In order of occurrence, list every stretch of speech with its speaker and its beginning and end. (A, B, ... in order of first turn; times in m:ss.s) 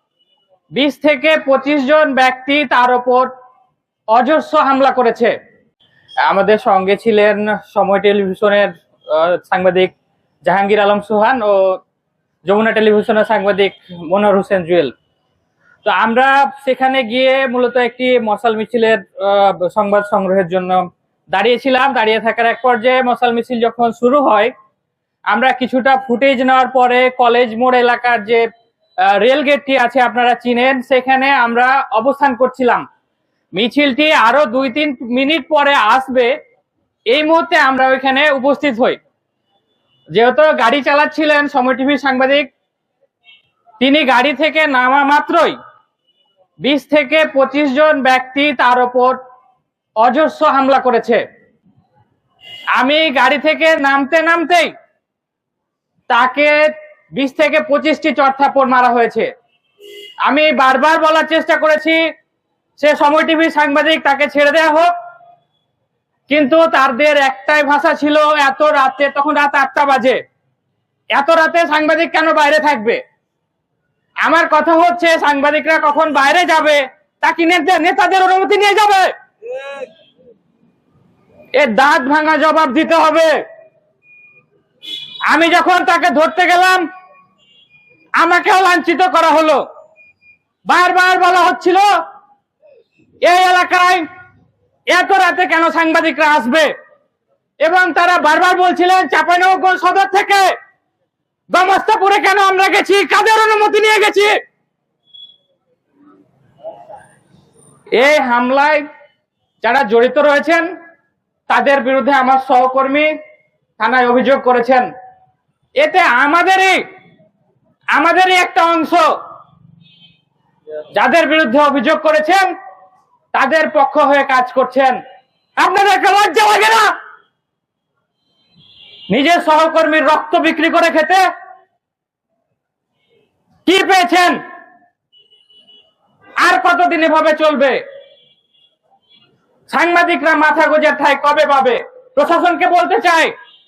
0:00.7-0:03.3 A
0:04.1-0:05.3 A
0:06.2-0:09.9 A
0:10.4-0:11.8 A
0:12.4-0:14.9 A
0:15.8-0:24.5 A
0:25.3-0:28.5 A
0:29.0-0:32.8 A
0:33.6-0:36.3 A
0:37.1-0:39.0 A
0:40.1-0:42.5 A
0:43.8-0:45.6 A
0:46.6-0:49.2 A
0:50.0-0:51.2 A
0:52.8-0:54.7 A
0:56.1-0:59.3 A
1:00.3-1:02.0 A
1:02.8-1:04.9 A
1:06.3-1:10.2 A
1:11.1-1:13.0 A
1:14.2-1:19.1 A
1:21.5-1:23.4 A
1:25.3-1:26.9 A
1:28.2-1:29.6 A
1:30.7-1:31.9 A
1:33.2-1:34.0 A
1:34.9-1:36.7 A
1:37.6-1:40.5 A
1:41.5-1:44.4 A
1:47.9-1:48.9 A
1:49.6-1:50.7 A
1:51.5-1:53.1 A
1:53.8-1:54.9 A
1:55.8-1:56.8 A
1:57.9-1:59.1 A
2:01.0-2:02.5 A
2:03.3-2:05.0 A
2:05.6-2:06.9 A
2:09.1-2:11.2 A
2:13.7-2:14.4 A
2:16.4-2:17.8 A
2:19.7-2:23.3 A